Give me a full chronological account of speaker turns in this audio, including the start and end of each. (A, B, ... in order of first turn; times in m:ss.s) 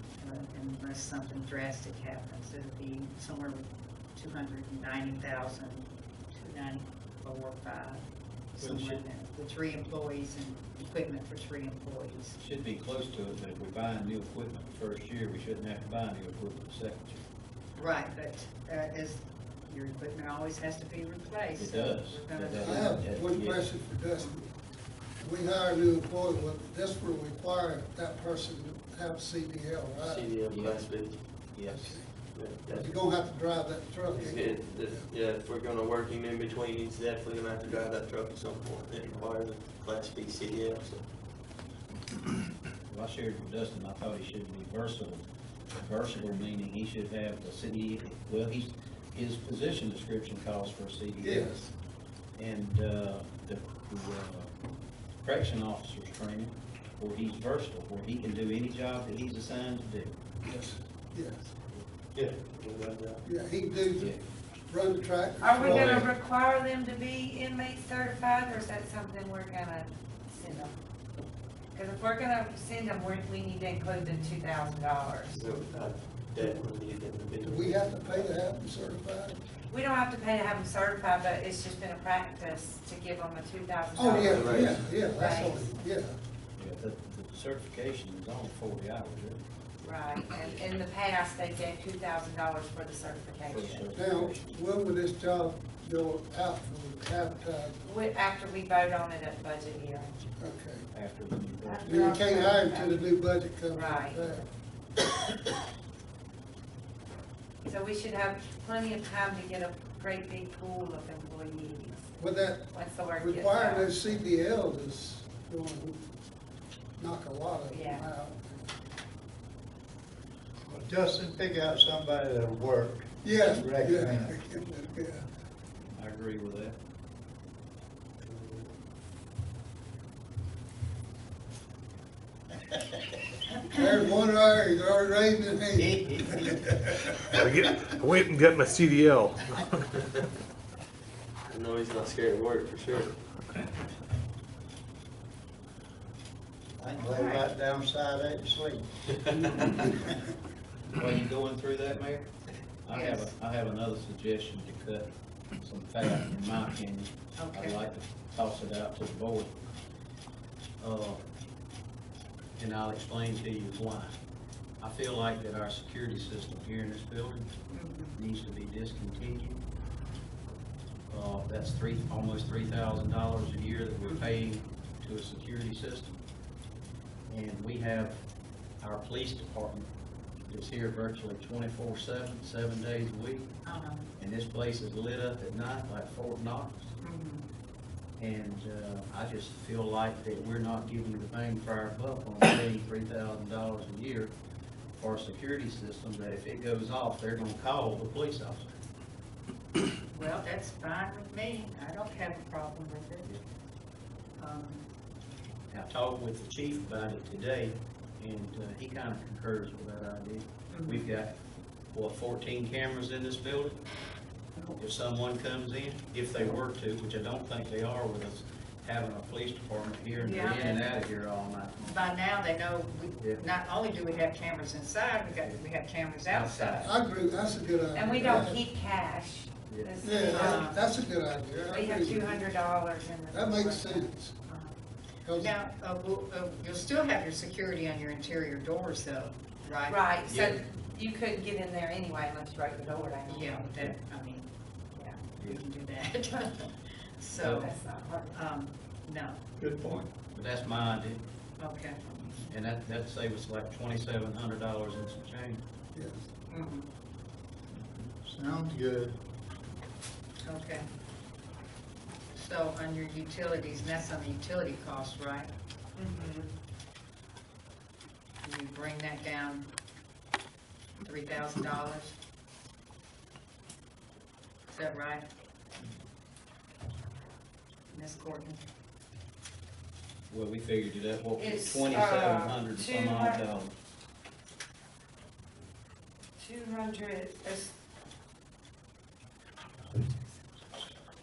0:00.2-0:08.0 A
0:08.5-0:12.4 A
0:08.6-0:09.0 B
0:12.4-0:17.2 B
0:17.8-0:23.0 A
0:21.6-0:23.7 B
0:22.6-0:24.5 C
0:25.2-0:30.4 C
0:30.0-0:31.2 D
0:30.4-0:30.9 B
0:31.5-0:32.0 B
0:31.6-0:32.0 C
0:32.3-0:33.0 D
0:32.7-0:35.1 C
0:34.1-0:41.0 D
0:42.9-0:51.5 B
0:51.2-0:51.7 C
0:52.4-0:54.6 B
0:55.2-1:00.2 B
1:00.4-1:01.5 C
1:02.1-1:03.2 D
1:03.2-1:04.1 C
1:04.0-1:04.2 B
1:04.7-1:06.1 C
1:05.4-1:10.7 E
1:05.6-1:06.0 F
1:11.7-1:15.5 E
1:15.3-1:18.4 D
1:17.4-1:19.4 C
1:19.7-1:25.7 E
1:24.0-1:26.2 C
1:24.1-1:24.9 D
1:26.6-1:29.4 B
1:29.8-1:33.9 E
1:33.5-1:34.5 B
1:34.0-1:37.8 C
1:37.8-1:40.2 E
1:40.4-1:40.9 C
1:40.9-1:42.0 B
1:41.6-1:43.1 E
1:41.8-1:44.5 C
1:43.7-1:44.4 E
1:47.6-1:54.1 E
1:52.2-1:56.0 C
1:57.0-1:58.6 C
1:57.7-1:58.1 E
2:00.7-2:04.4 F
2:03.2-2:05.3 C
2:06.0-2:06.8 B
2:08.2-2:08.7 D
2:13.6-2:17.3 C
2:17.4-2:19.9 G
2:21.5-2:23.2 D
2:26.8-2:28.9 F
2:27.0-2:27.4 E
2:30.9-2:32.3 B
2:32.8-2:39.6 B
2:32.9-2:33.3 A
2:37.4-2:37.8 A
2:40.8-2:41.2 B
2:42.6-2:44.2 B
2:44.8-2:47.5 B
2:47.7-2:48.2 A
2:48.2-2:49.6 B
2:51.1-2:56.2 B
2:54.0-2:54.3 A
2:57.3-2:58.2 B
2:58.8-2:59.9 B
3:00.5-3:03.6 B
3:03.6-3:04.1 A
3:04.2-3:06.9 B
3:07.0-3:07.4 A
3:08.2-3:14.4 B
3:14.9-3:18.8 B
3:20.1-3:23.3 A
3:24.4-3:24.8 A
3:25.7-3:31.4 B
3:30.7-3:31.1 A
3:31.9-3:33.8 B
3:34.8-3:42.0 B
3:40.2-3:40.8 A
3:41.8-3:46.9 A
3:46.3-3:46.9 B
3:46.8-3:48.6 C
3:47.9-3:50.7 E
3:49.7-3:50.0 B
3:50.0-3:52.5 C
3:50.2-3:50.8 A
3:51.7-3:54.1 E
3:53.3-3:54.3 C
3:54.5-3:54.7 A
3:55.2-3:55.5 C
3:55.4-4:00.0 A
3:59.9-4:03.8 E
4:00.3-4:00.6 B
4:03.3-4:04.5 A
4:05.4-4:07.7 A
4:07.4-4:07.6 B
4:07.5-4:08.3 E
4:08.3-4:09.4 A
4:10.2-4:11.2 B
4:11.6-4:12.5 A
4:12.5-4:15.6 B
4:16.5-4:16.9 A
4:18.2-4:19.2 F
4:20.4-4:20.9 A
4:22.3-4:25.5 A
4:26.0-4:26.5 E
4:28.4-4:29.7 A
4:31.0-4:32.2 A
4:34.7-4:35.3 A
4:37.9-4:38.6 A
4:40.3-4:43.7 B
4:41.4-4:43.5 E
4:46.4-4:47.7 E
4:49.9-4:50.3 E